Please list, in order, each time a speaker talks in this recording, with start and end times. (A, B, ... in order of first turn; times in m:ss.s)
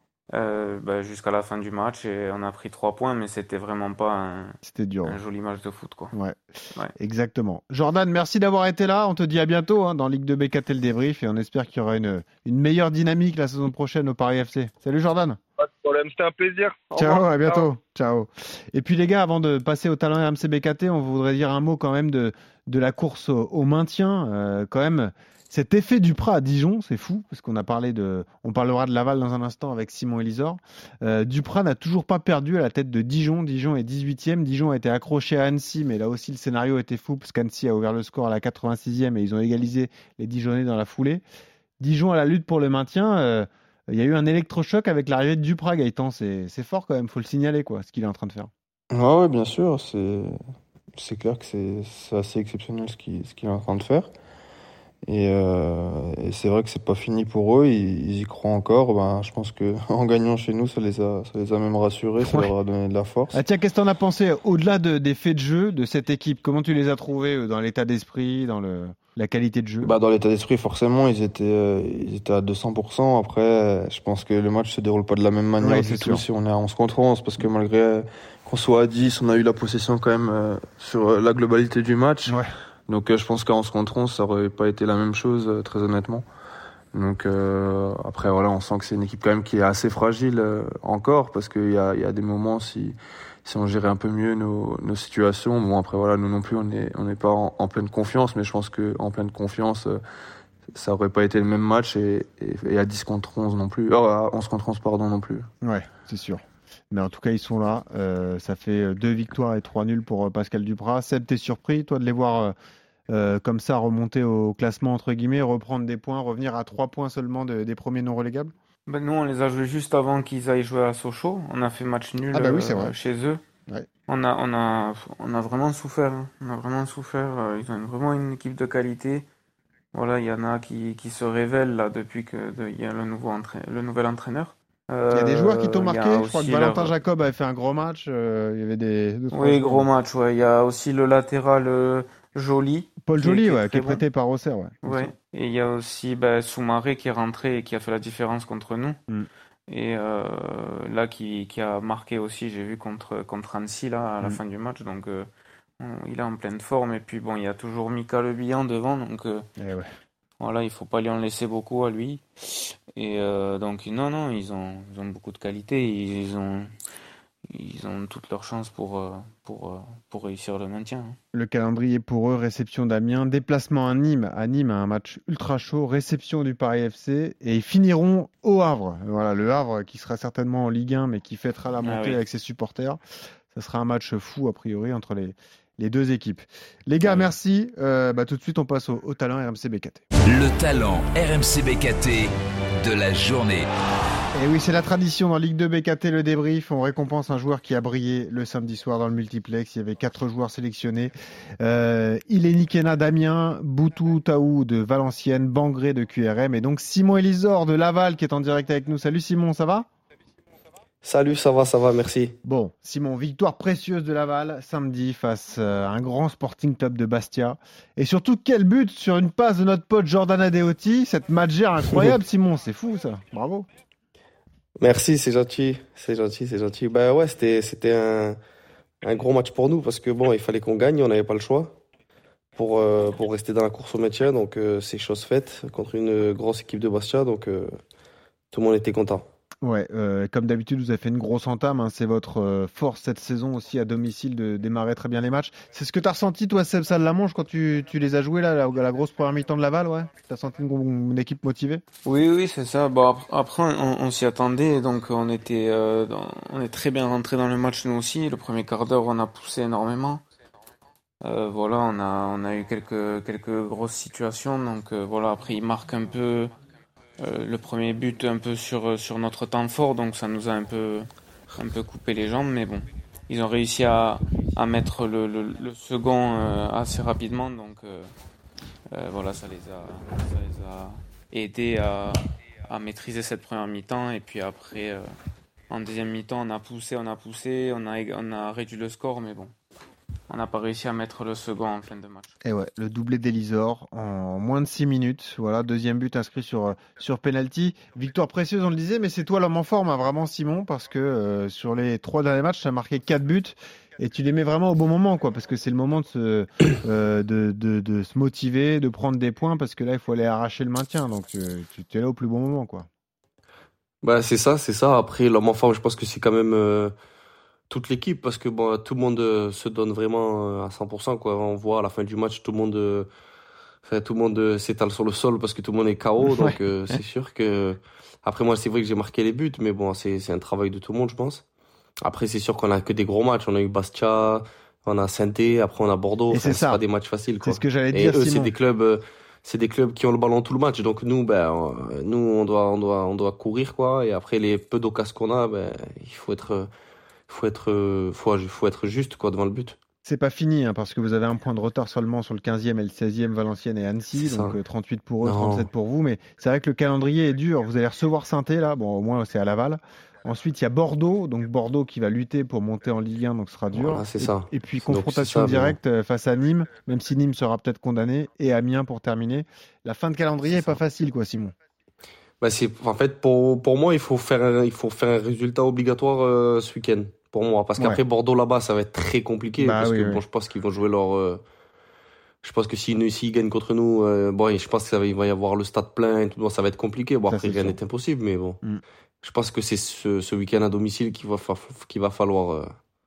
0:00.3-0:06.1 A
0:04.6-0:05.2 B
0:06.1-0:06.4 B
0:07.0-0:15.4 B
0:15.6-0:17.6 C
0:17.0-0:41.2 B
0:41.8-0:48.5 B
0:48.9-0:50.4 D
0:51.0-0:54.1 D
0:55.0-1:03.3 D
1:02.2-1:02.5 B
1:03.3-1:09.9 B
1:09.8-1:22.4 D
1:15.6-1:16.2 B
1:22.9-1:26.2 D
1:26.9-1:40.0 D
1:40.7-1:45.5 D
1:45.6-1:52.5 B
1:53.1-1:58.5 B
1:58.9-2:03.4 A
2:02.3-2:02.9 B
2:04.1-2:09.2 A
2:09.9-2:16.9 A
2:15.1-2:19.9 B
2:19.3-2:24.0 A
2:23.0-2:25.1 B
2:24.8-2:29.0 A
2:29.7-2:35.3 A
2:35.8-2:39.5 A
2:39.6-2:39.9 B
2:40.4-2:46.7 A
2:47.5-2:51.2 A
2:51.3-3:03.0 B
3:01.8-3:02.2 A
3:03.5-3:10.0 B
3:10.2-3:13.7 E
3:14.3-3:29.9 B
3:31.0-3:32.4 F
3:32.4-3:43.7 B
3:44.8-3:48.4 F
3:49.0-3:51.8 F
3:52.6-3:57.7 F
3:58.5-3:59.3 F
3:59.6-4:11.8 B
4:12.0-4:20.2 A
4:21.2-4:26.5 A
4:27.2-4:38.1 A
4:38.9-4:45.1 A
4:45.7-4:49.5 A
4:50.3-4:52.3 A
4:52.4-5:12.9 B
5:14.0-5:16.9 F
5:17.7-5:23.1 F
5:23.8-5:31.4 F
5:26.2-5:26.6 B
5:32.0-5:46.7 F
5:36.3-5:36.8 B
5:37.4-5:38.5 B
5:47.3-5:49.8 F
5:50.0-6:11.5 B
5:54.2-5:54.6 F
5:55.2-5:55.7 F
6:03.7-6:05.8 F
6:10.4-6:10.8 F
6:12.4-6:21.4 F
6:19.6-6:20.2 B
6:22.4-6:28.6 F
6:27.3-6:27.8 B
6:29.2-6:32.7 F